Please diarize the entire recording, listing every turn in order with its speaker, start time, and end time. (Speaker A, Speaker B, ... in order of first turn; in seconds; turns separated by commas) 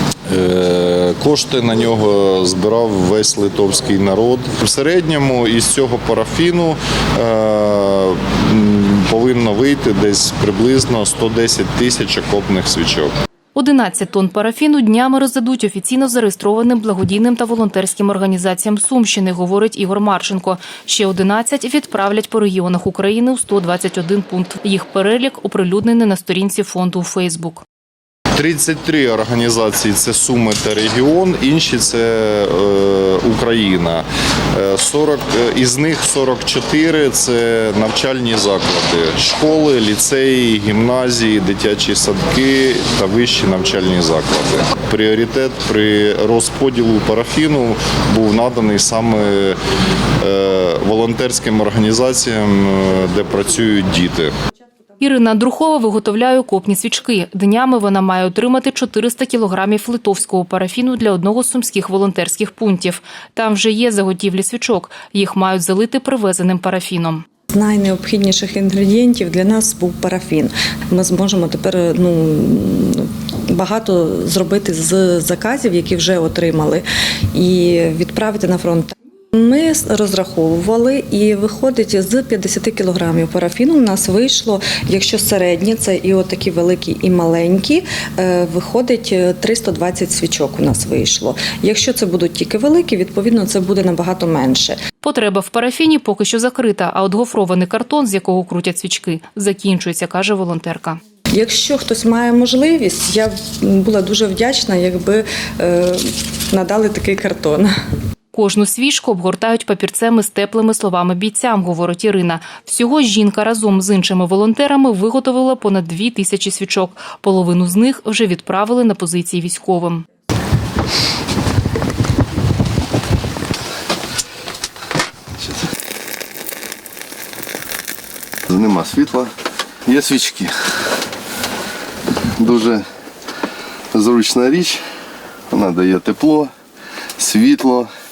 Speaker A: 0.3-13.1, Speaker B: 13.5-27.6, Speaker A: 28.4-49.6, Speaker A: 50.2-54.3, Speaker B: 55.0-67.2, Speaker C: 67.5-94.8, Speaker B: 95.0-101.0, Speaker C: 101.3-107.7, Speaker B: 108.3-120.0, Speaker D: 128.5-129.3, Speaker D: 129.8-130.9, Speaker D: 132.3-132.8, Speaker D: 133.9-134.8, Speaker D: 135.5-136.5, Speaker D: 137.2-137.9